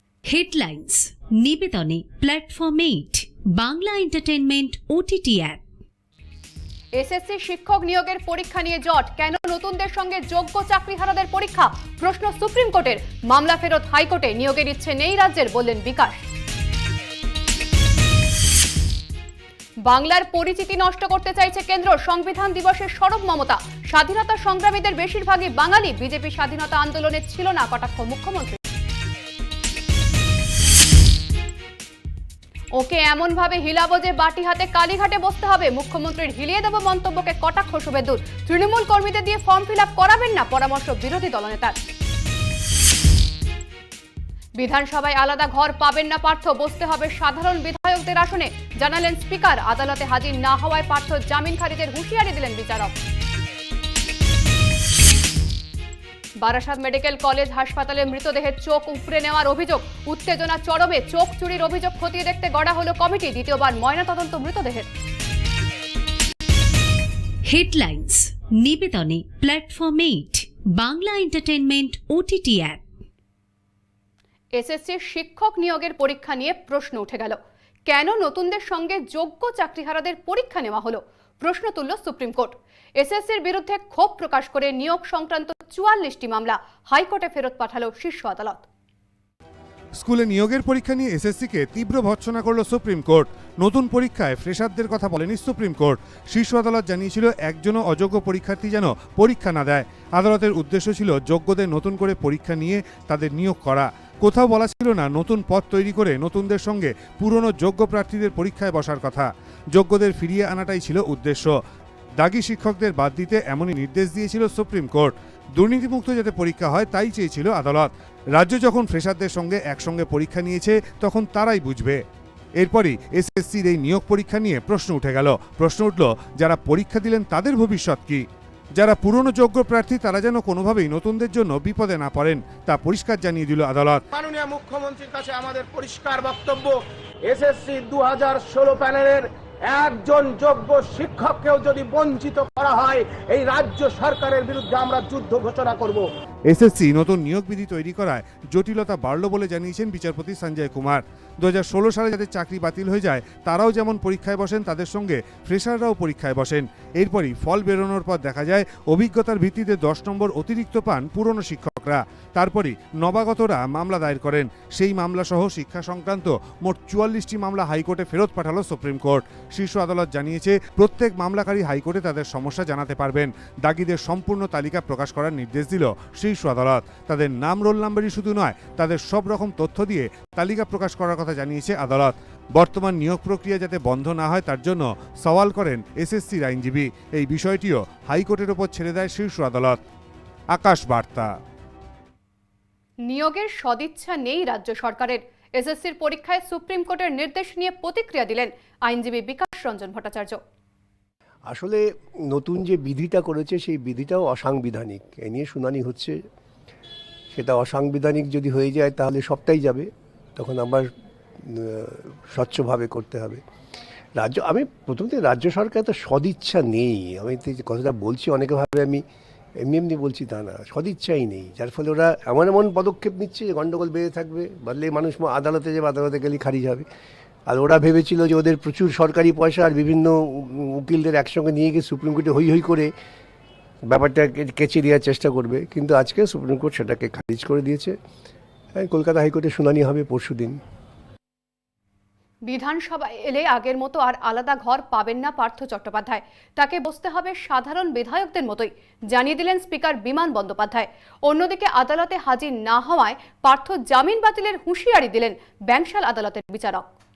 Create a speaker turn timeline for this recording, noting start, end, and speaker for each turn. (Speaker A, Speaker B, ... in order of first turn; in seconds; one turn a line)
Speaker A: 0.2-5.6
Speaker B: 7.0-16.2
Speaker B: 19.9-28.6
Speaker B: 32.8-41.8
Speaker B: 44.6-52.9
Speaker B: 56.4-64.9
Speaker A: 67.4-72.8
Speaker B: 74.5-88.7
Speaker C: 90.0-111.5
Speaker C: 112.2-122.0
Speaker C: 122.6-128.2
Speaker C: 128.8-134.0
Speaker D: 134.1-146.1
Speaker C: 146.5-189.8
Speaker C: 190.5-191.3
Speaker B: 193.1-200.4
Speaker E: 201.5-206.2
Speaker E: 207.3-210.9
Speaker E: 211.5-213.4
Speaker E: 214.2-219.0
Speaker E: 219.6-226.9
Speaker E: 227.5-232.9
Speaker E: 233.9-237.9
Speaker E: 238.8-240.6
Speaker B: 242.4-256.8